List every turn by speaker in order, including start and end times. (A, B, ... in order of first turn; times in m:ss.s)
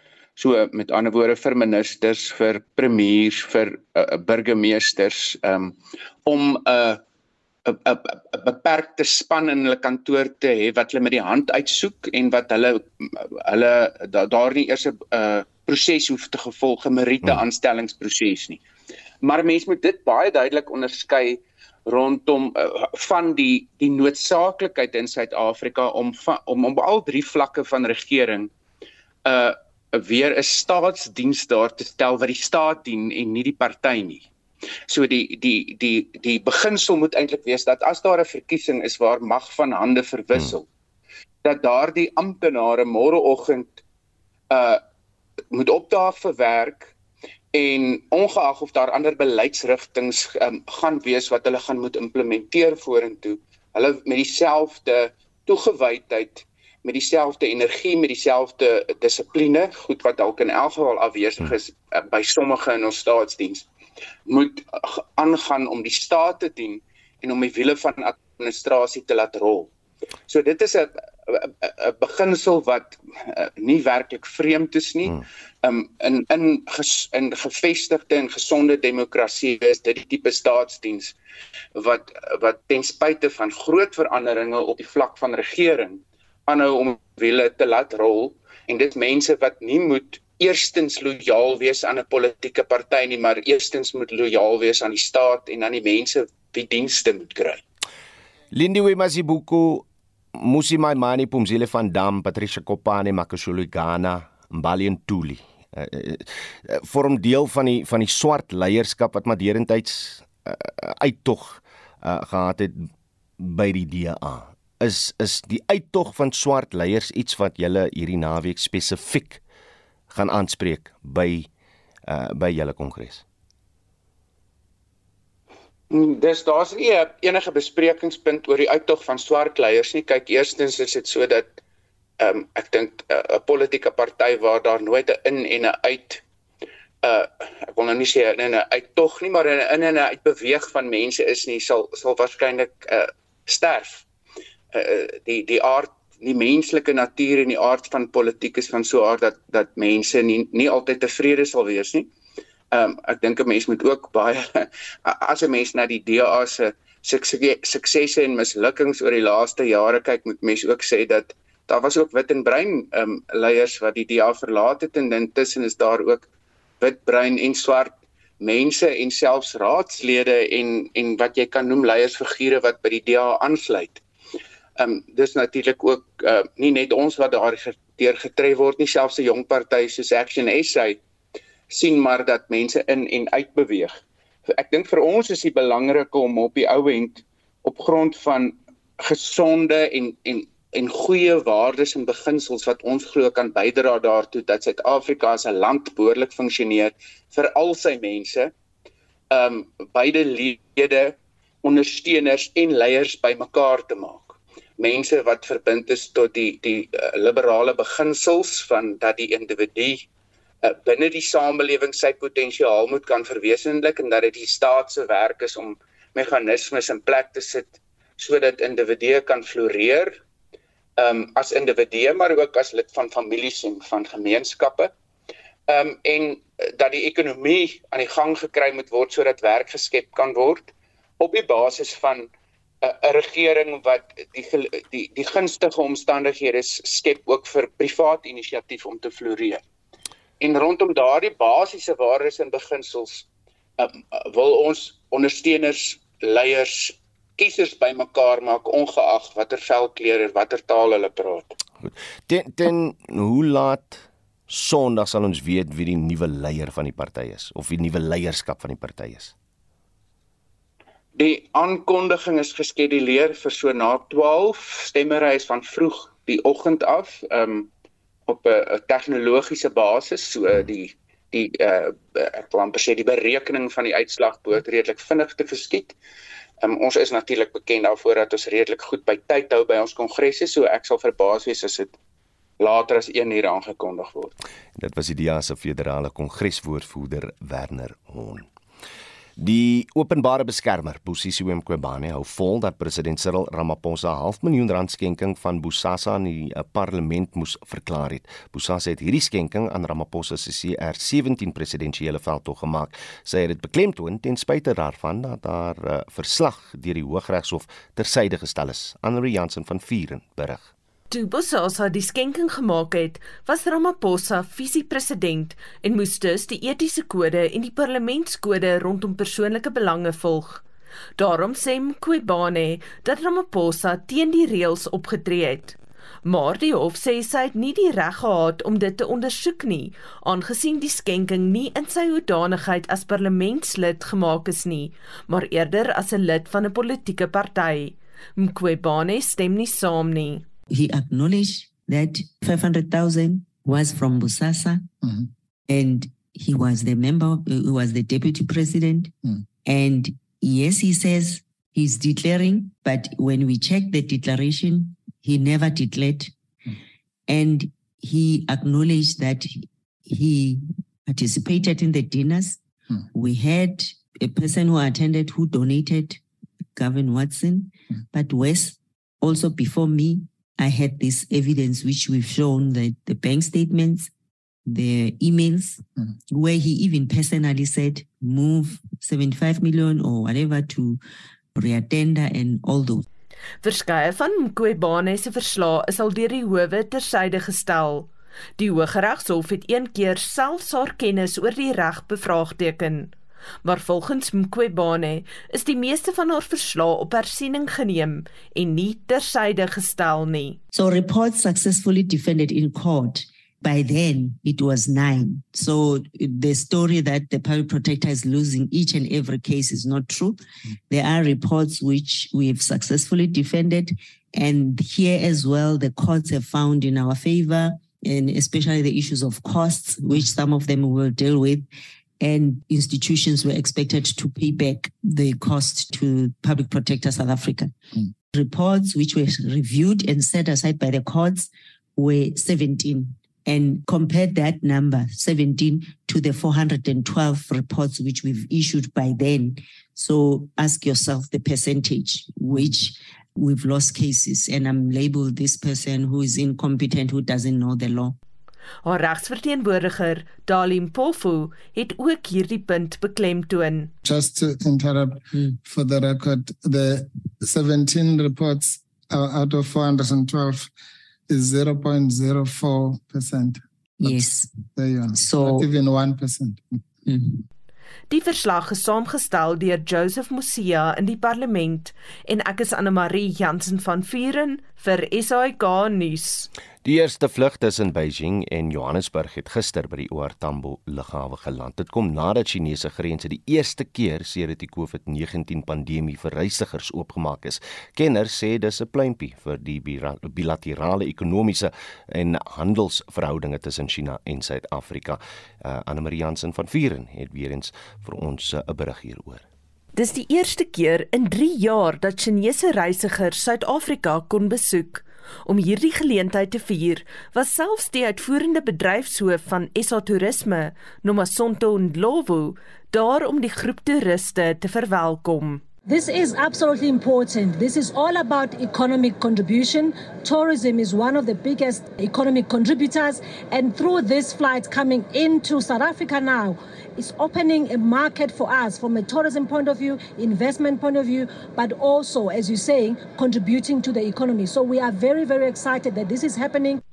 0:00.4-0:05.7 A
0:06.2-0:07.0 A
0:07.6-0:18.6 A
0:19.2-0:28.5 A
0:29.2-0:34.3 A
0:34.9-0:40.6 A
0:41.4-0:43.8 A
0:44.5-0:44.8 A
0:45.5-0:46.9 A
0:47.5-1:03.7 A
1:04.3-1:09.7 A
1:10.3-1:21.2 A
1:21.8-1:37.6 A
1:38.5-1:59.4 B
2:00.1-2:01.5 B
2:02.0-2:03.2 B
2:05.9-2:11.6 A
2:12.2-2:16.2 A
2:17.0-2:24.0 A
2:24.7-2:32.1 A
2:32.7-2:46.2 A
2:46.8-2:54.0 A
2:54.8-3:01.0 A
3:01.7-3:18.5 A
3:19.3-3:30.0 A
3:30.6-3:40.2 A
3:41.0-3:44.9 A
3:45.7-3:52.3 A
3:52.8-3:59.6 A
4:00.4-4:03.2 A
4:03.8-4:11.5 A
4:11.8-4:19.3 B
4:21.1-4:27.7 A
4:28.3-4:36.0 A
4:36.6-4:41.9 A
4:42.6-4:44.3 A
4:44.8-4:48.5 B
4:49.4-5:10.7 B
5:11.1-5:20.6 C
5:21.2-5:40.4 C
5:40.7-5:44.9 D
5:45.7-5:49.1 D
5:49.6-5:56.3 D
5:57.3-6:02.6 D
6:03.1-6:06.2 D
6:06.7-6:14.1 D
6:14.7-6:21.0 D
6:21.6-6:23.0 D
6:23.6-6:33.1 C
6:33.6-6:40.6 C
6:40.7-7:01.6 D
7:02.2-7:07.7 D
7:08.3-7:28.2 D
7:28.8-7:33.9 C
7:34.0-7:40.7 E
7:35.3-7:35.6 D
7:41.3-7:46.8 E
7:44.0-7:44.6 D
7:45.1-7:45.7 D
7:47.0-7:47.4 D
7:48.1-7:56.5 C
7:56.8-8:19.4 B
8:19.9-8:35.6 C
8:35.9-8:56.8 F